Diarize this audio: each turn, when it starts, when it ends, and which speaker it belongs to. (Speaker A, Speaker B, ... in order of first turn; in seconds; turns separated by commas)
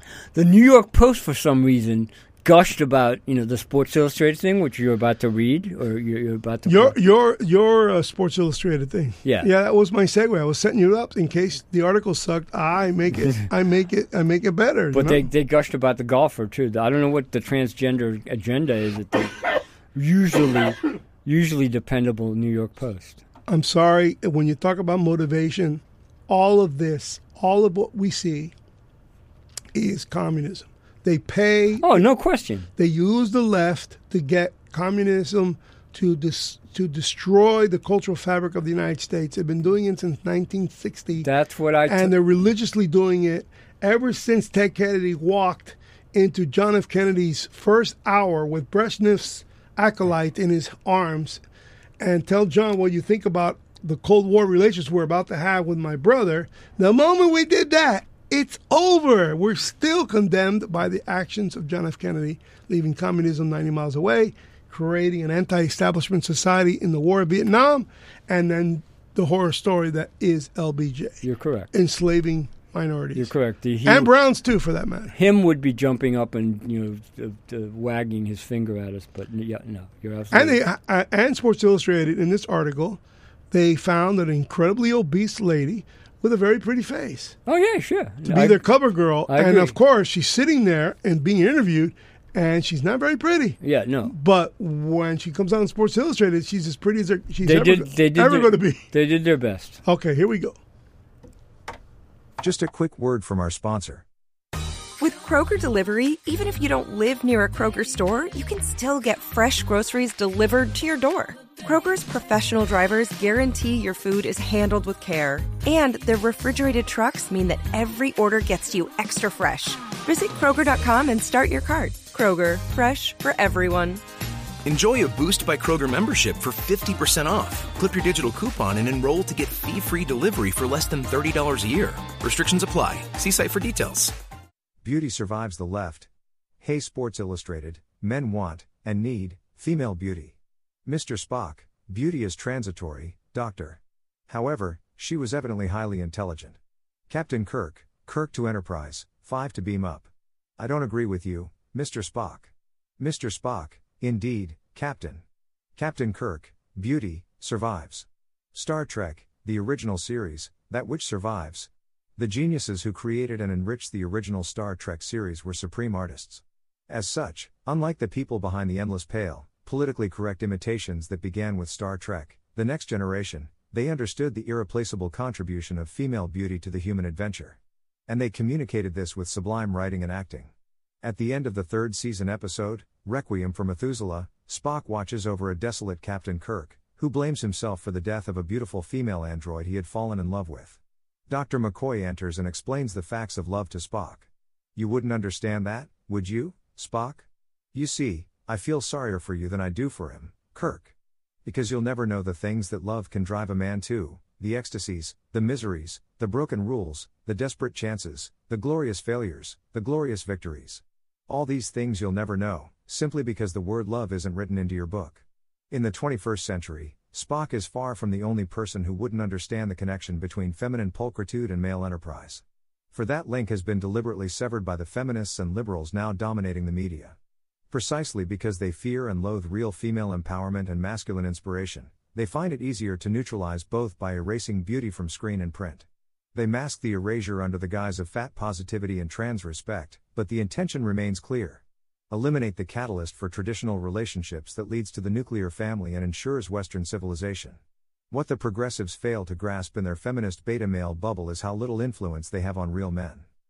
Speaker A: 0.3-7.0, Speaker B: 6.7-15.2, Speaker A: 9.2-9.5, Speaker A: 14.9-23.2, Speaker B: 23.5-28.5, Speaker B: 29.7-32.1, Speaker A: 31.8-32.7, Speaker B: 32.8-41.3, Speaker A: 41.2-42.1, Speaker B: 41.9-51.4, Speaker B: 52.0-73.3, Speaker A: 71.2-71.7, Speaker A: 73.2-74.1, Speaker B: 73.8-75.1, Speaker A: 75.2-80.6, Speaker B: 80.3-83.0, Speaker B: 83.5-87.3, Speaker A: 87.5-88.6, Speaker B: 88.3-98.8, Speaker A: 89.3-89.8, Speaker A: 93.6-94.1, Speaker A: 97.4-99.8, Speaker B: 99.8-100.6, Speaker C: 102.4-104.0, Speaker D: 105.0-124.0, Speaker E: 124.7-134.1, Speaker C: 134.8-136.1, Speaker C: 136.6-140.3, Speaker C: 140.9-146.6, Speaker C: 147.1-155.2, Speaker C: 155.8-180.5, Speaker C: 181.0-200.9, Speaker C: 201.4-227.2, Speaker C: 227.7-247.6, Speaker C: 248.1-253.2